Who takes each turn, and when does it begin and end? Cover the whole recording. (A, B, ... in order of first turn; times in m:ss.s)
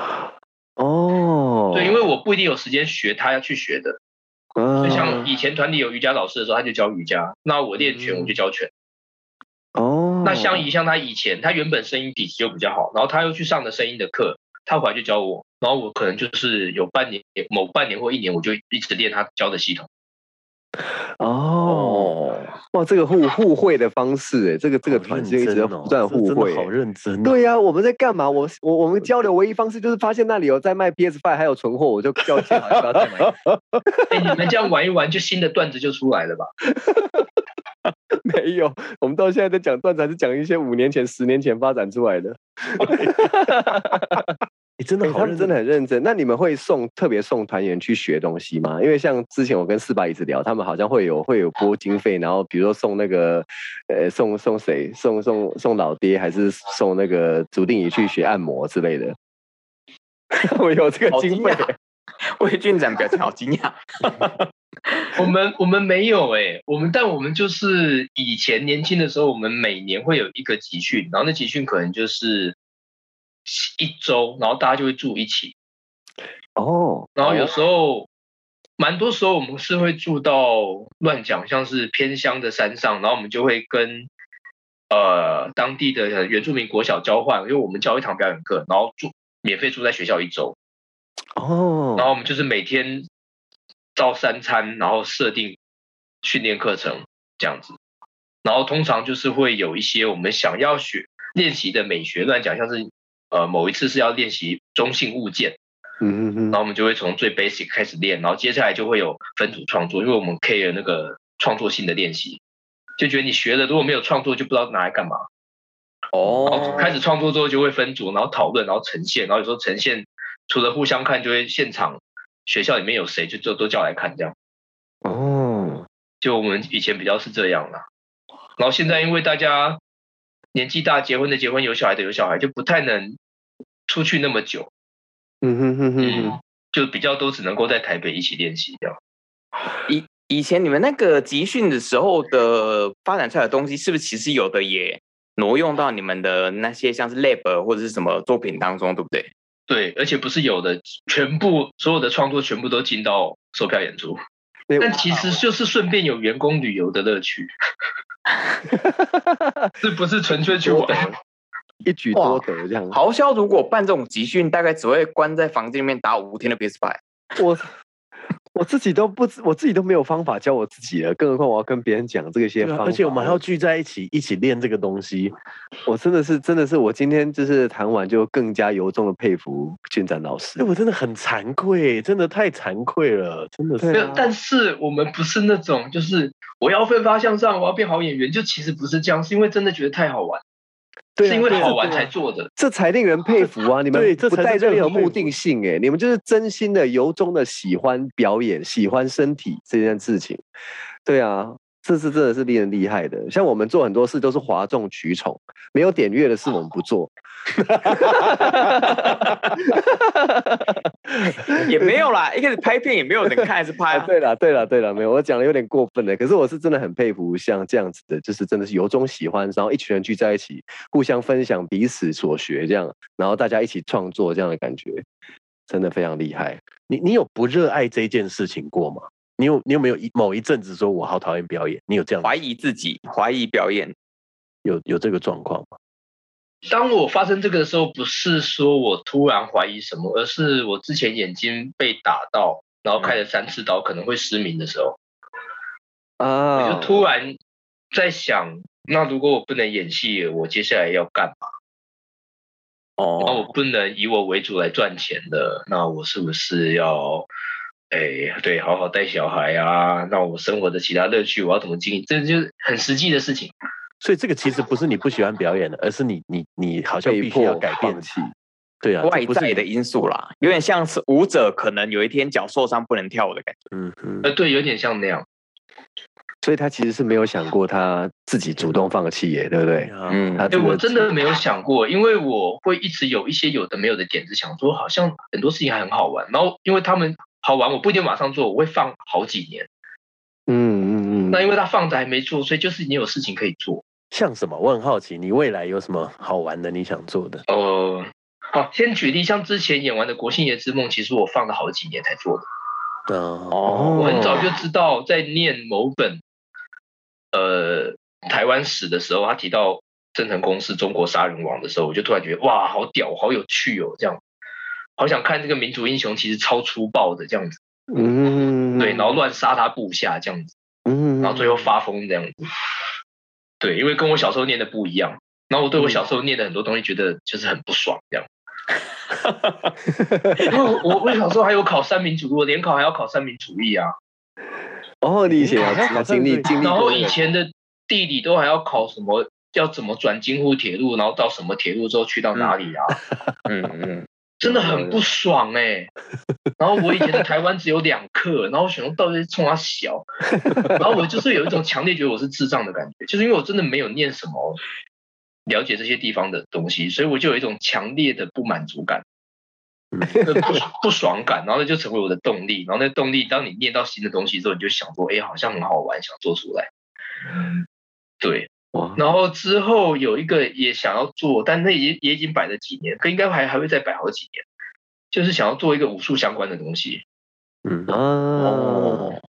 0:00.8-0:02.0 A
0:01.7-0:04.0 B
0:04.6-0:05.3 A
0:04.8-0:08.7 B
0:09.8-0:10.6 A
0:10.2-0:19.9 B
0:21.2-0:22.1 A
0:21.6-0:22.5 C
0:22.7-0:26.7 A
0:24.9-0:27.4 D
0:27.2-0:34.4 A
0:34.1-0:36.5 B
0:36.7-0:37.3 A
0:38.2-0:44.3 A
0:42.8-0:43.1 D
0:44.8-0:45.5 D
0:45.0-0:59.2 A
1:00.3-1:01.8 A
1:01.1-1:01.7 C
1:02.4-1:05.1 C
1:05.2-1:12.6 B
1:13.5-1:15.5 B
1:16.6-1:17.5 A
1:17.2-1:18.1 B
1:18.8-1:24.1 B
1:24.9-1:30.6 B
1:31.4-1:32.1 A
1:32.0-1:33.1 B
1:34.0-1:35.6 B
1:36.2-1:37.8 B
1:38.4-1:45.6 B
1:46.0-1:46.6 A
1:46.5-1:52.4 B
1:53.0-1:55.2 B
1:56.1-1:57.0 C
1:56.5-2:04.3 B
2:05.0-2:05.9 A
2:06.2-2:07.8 B
2:08.6-2:09.8 B
2:10.5-2:13.2 B
2:13.9-2:14.7 B
2:15.4-2:16.4 A
2:16.0-2:19.0 B
2:19.9-2:29.3 C
2:29.7-2:34.2 B
2:34.7-2:35.0 A
2:34.8-2:37.5 B
2:38.7-2:39.7 A
2:39.8-2:41.1 B
2:40.5-2:41.2 A
2:41.8-2:43.0 A
2:42.2-2:47.0 C
2:47.4-2:47.7 A
2:48.5-2:53.4 A
2:52.6-2:55.3 D
2:55.9-3:00.7 A
3:00.6-3:04.2 D
3:03.8-3:04.3 A
3:03.9-3:10.4 B
3:11.2-3:20.4 A
3:11.2-3:12.5 B
3:13.9-3:15.3 D
3:21.1-3:32.0 A
3:31.5-3:34.1 C
3:33.9-3:45.0 A
3:45.7-3:46.6 A
3:46.9-3:52.4 D
3:52.2-3:53.9 C
3:54.6-3:55.8 D
3:56.7-4:05.0 B
4:06.2-4:07.1 A
4:06.6-4:07.4 B
4:07.9-4:11.5 B
4:13.0-4:13.5 C
4:13.2-4:17.3 B
4:17.9-4:23.5 B
4:24.0-4:28.1 D
4:27.0-4:28.3 A
4:28.8-4:29.6 D
4:29.0-4:33.6 C
4:33.7-4:34.3 D
4:34.2-4:35.2 B
4:36.4-4:41.1 A
4:39.8-4:40.5 D
4:40.1-4:40.4 C
4:40.5-4:49.7 B
4:50.5-4:51.4 A
4:51.3-4:53.8 B
4:54.1-4:57.4 D
4:57.5-5:02.4 B
5:03.1-5:03.6 D
5:03.5-5:04.4 C
5:03.6-5:04.5 A
5:04.0-5:06.2 B
5:07.3-5:14.2 B
5:15.0-5:18.1 B
5:17.9-5:19.2 A
5:18.8-5:20.5 B
5:20.9-5:21.7 A
5:21.2-5:22.5 B
5:23.6-5:28.3 B
5:29.2-5:29.5 C
5:30.0-5:30.4 A
5:30.4-5:33.9 B
5:35.0-5:37.2 A
5:35.3-5:36.6 D
5:36.6-5:43.0 B
5:43.5-5:44.9 C
5:44.4-5:45.9 B
5:46.6-5:50.1 B
5:50.4-5:50.8 A
5:50.7-5:54.6 B
5:55.5-5:59.0 B
5:59.9-6:00.2 D
6:00.2-6:06.7 B
6:08.2-6:14.4 B
6:15.1-6:17.0 B
6:17.6-6:17.9 D
6:17.9-6:19.2 A
6:18.4-6:19.2 C